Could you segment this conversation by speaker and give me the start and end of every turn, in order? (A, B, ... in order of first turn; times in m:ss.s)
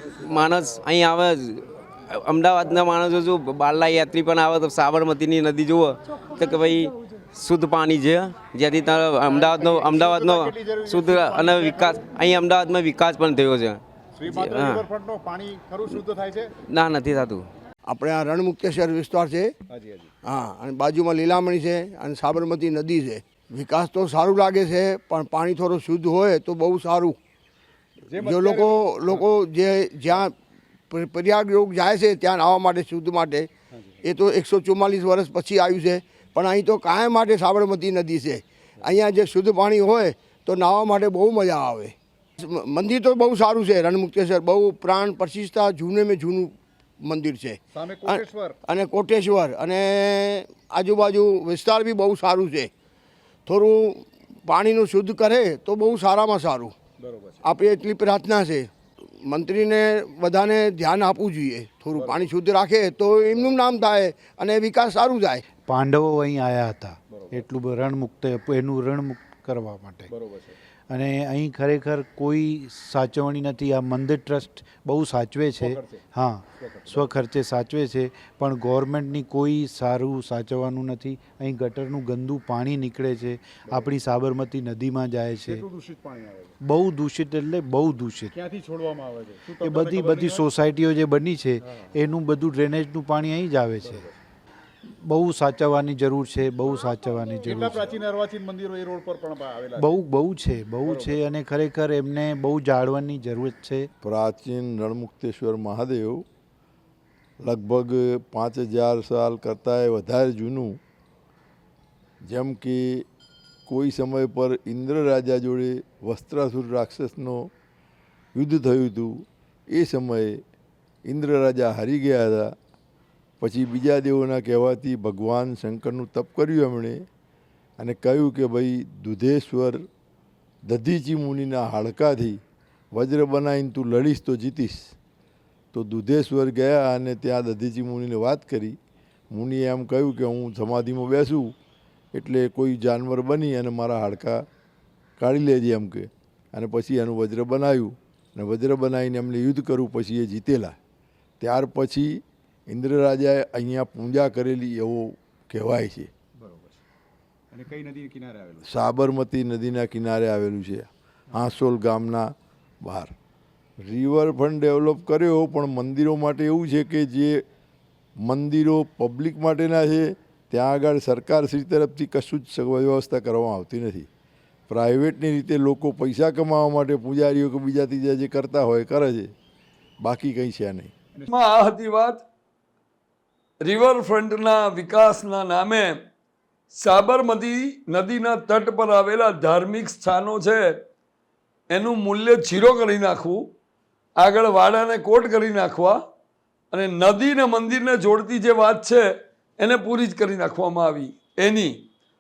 0:00.2-0:14.8 A
0:08.7-0:12.0 B
0:14.1-0:16.5 B
0:16.7-0:17.4 A
0:17.9-0:19.5 C
0:19.7-0:20.1 B
0:20.2-0:27.2 C
0:28.0-0:29.3 B
0:28.2-0:30.3 C
0:30.9-0:33.5 C
0:33.7-0:34.0 B
0:34.0-0:52.7 C
0:47.7-0:48.6 B
0:53.4-0:56.7 C
0:57.0-0:57.5 B
0:57.4-1:05.4 C
1:01.9-1:02.3 B
1:05.6-1:10.1 D
1:07.1-1:07.4 B
1:10.1-1:10.6 B
1:10.9-1:25.6 D
1:15.6-1:16.0 B
1:16.6-1:17.1 B
1:23.7-1:23.9 B
1:25.5-1:26.6 B
1:26.6-1:28.3 D
1:28.3-1:30.4 B
1:29.6-1:34.0 D
1:33.8-1:34.1 B
1:35.0-1:38.0 D
1:37.4-1:39.9 B
1:39.8-1:43.9 D
1:40.8-1:41.3 B
1:44.0-1:46.2 E
1:47.4-1:50.8 E
1:52.2-1:53.0 E
1:53.7-1:57.5 E
1:58.3-2:00.4 E
2:01.0-2:02.5 E
2:03.4-2:07.0 E
2:07.8-2:09.9 E
2:10.6-2:12.4 E
2:12.9-2:14.9 E
2:15.7-2:18.8 E
2:19.3-2:21.5 E
2:22.1-2:24.4 E
2:25.2-2:30.8 E
2:31.4-2:36.1 E
2:36.4-2:36.8 B
2:37.5-2:38.7 B
2:38.6-2:43.1 E
2:43.8-2:47.4 E
2:48.2-2:54.1 E
2:54.7-2:59.3 E
3:00.0-3:00.9 E
3:01.3-3:02.2 F
3:03.6-3:06.0 F
3:06.7-3:10.8 F
3:11.7-3:13.5 F
3:14.2-3:16.0 F
3:16.7-3:19.1 F
3:19.6-3:21.8 F